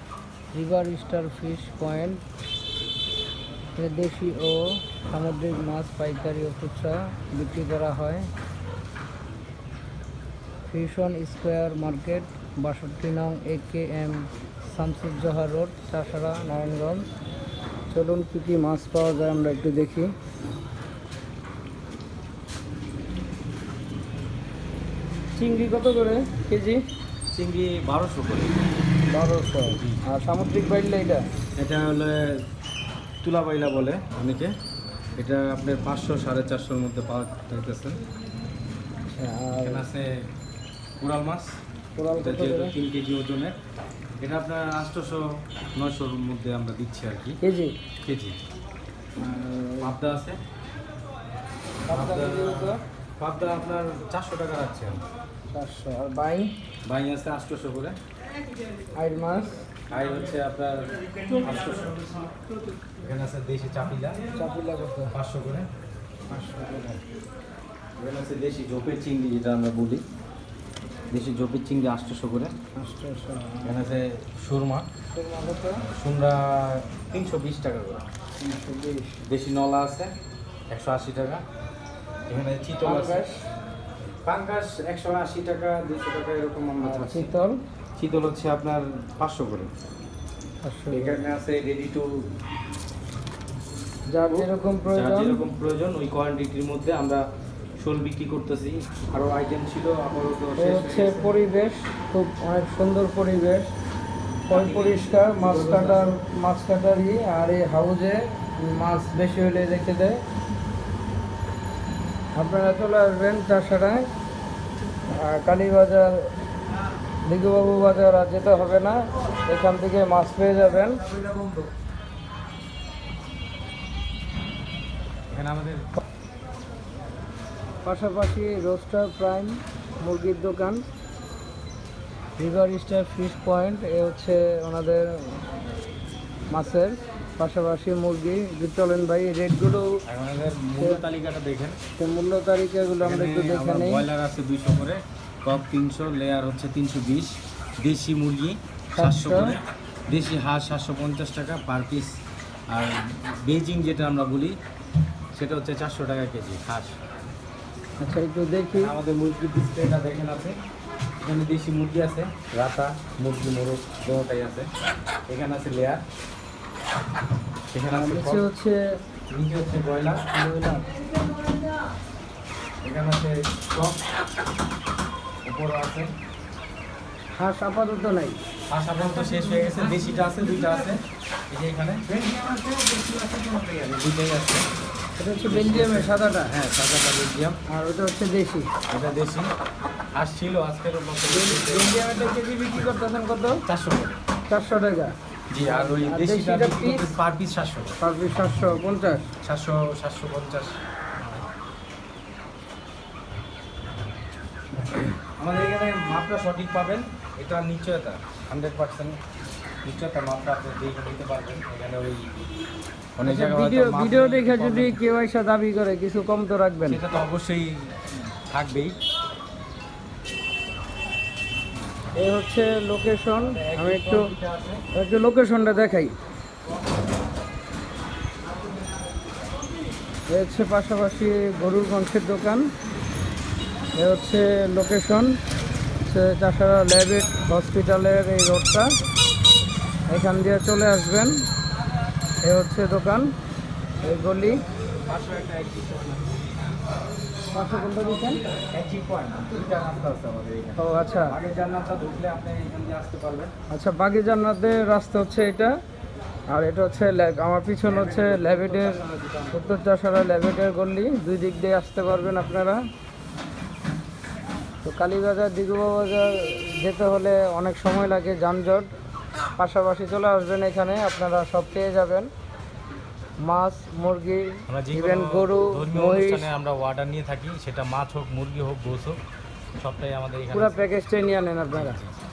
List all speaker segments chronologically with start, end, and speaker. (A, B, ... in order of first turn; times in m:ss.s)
0:00.5-0:02.2 A
0:03.8-0:08.3 A
0:10.7-0:17.1 A
0:17.9-0:20.1 A
0:25.4-0:26.8 A
0:27.3-0:28.6 B
0:29.1-0:31.2 A
0:29.7-0:30.0 B
0:31.6-0:32.4 B
0:33.2-0:34.5 B
0:35.2-0:38.0 B
0:39.1-0:39.8 A
0:39.6-0:40.1 B
0:41.0-0:41.6 B
0:42.0-0:42.7 A
0:42.2-0:43.5 B
0:44.2-0:47.4 B
0:47.4-0:47.8 A
0:48.0-0:48.4 B
0:49.2-0:49.9 A
0:49.8-0:50.4 B
0:51.9-0:52.8 A
0:51.9-0:55.0 B
0:55.5-0:56.5 A
0:56.8-0:58.0 B
0:58.9-0:59.6 A
0:59.9-1:02.2 B
1:03.0-1:04.2 B
1:04.4-1:05.1 A
1:05.1-1:05.7 B
1:06.3-1:07.0 A
1:08.0-1:10.0 B
1:11.1-1:12.5 B
1:12.7-1:13.8 A
1:13.6-1:14.9 B
1:15.1-1:15.8 A
1:15.8-1:18.0 B
1:18.4-1:19.2 A
1:19.2-1:20.1 B
1:20.7-1:21.4 B
1:22.3-1:23.2 B
1:22.8-1:23.4 A
1:24.2-1:27.3 B
1:26.8-1:27.6 A
1:28.0-1:29.7 B
1:30.6-1:31.2 A
1:30.9-1:32.3 B
1:34.1-1:35.4 A
1:34.3-1:37.2 B
1:37.8-1:41.4 B
1:40.6-1:43.7 A
1:44.5-1:46.2 B
1:44.5-1:50.2 A
1:52.4-1:54.1 A
1:55.1-1:56.3 A
1:57.2-2:01.1 A
2:05.3-2:05.9 B
2:07.8-2:10.8 A
2:12.4-2:15.4 A
2:16.5-2:20.0 A
2:20.0-2:21.8 B
2:22.0-2:24.0 A
2:23.0-2:32.1 B
2:29.0-2:29.6 A
2:32.7-2:34.5 B
2:35.3-2:37.0 B
2:38.0-2:38.9 A
2:38.7-2:40.6 B
2:41.2-2:44.7 B
2:45.3-2:46.0 B
2:47.7-2:48.4 B
2:47.9-2:49.0 A
2:49.3-2:50.2 B
2:50.3-2:50.9 A
2:52.8-2:54.1 B
2:55.4-2:56.1 B
2:57.4-2:58.4 A
2:58.7-3:02.1 B
3:02.2-3:03.4 A
3:03.4-3:04.7 B
3:05.2-3:06.5 A
3:05.4-3:07.6 B
3:07.7-3:08.7 A
3:08.9-3:09.5 B
3:10.1-3:11.9 B
3:11.3-3:13.6 A
3:13.6-3:14.2 B
3:14.5-3:17.1 A
3:15.5-3:18.0 B
3:18.0-3:19.3 A
3:19.4-3:20.8 B
3:25.2-3:29.2 B
3:29.8-3:32.3 B
3:33.2-3:35.0 B
3:33.2-3:37.0 A
3:36.8-3:39.0 B
3:42.1-3:44.3 A
3:43.4-3:44.8 B
3:44.9-3:46.1 A
3:50.3-3:52.7 A
3:54.0-3:55.4 A
3:56.0-3:59.0 A
4:00.1-4:01.4 A
4:02.4-4:03.3 A
4:04.0-4:04.6 A
4:05.1-4:06.3 B
4:07.5-4:08.4 A
4:08.7-4:13.5 B
4:10.8-4:11.4 A
4:13.7-4:15.8 A
4:16.5-4:22.8 A
4:17.8-4:19.7 B
4:24.8-4:28.9 A
4:29.6-4:32.3 A
4:33.4-4:36.5 A
4:34.7-4:39.2 B
4:39.8-4:40.8 B
4:40.5-4:42.0 A
4:41.7-4:42.2 B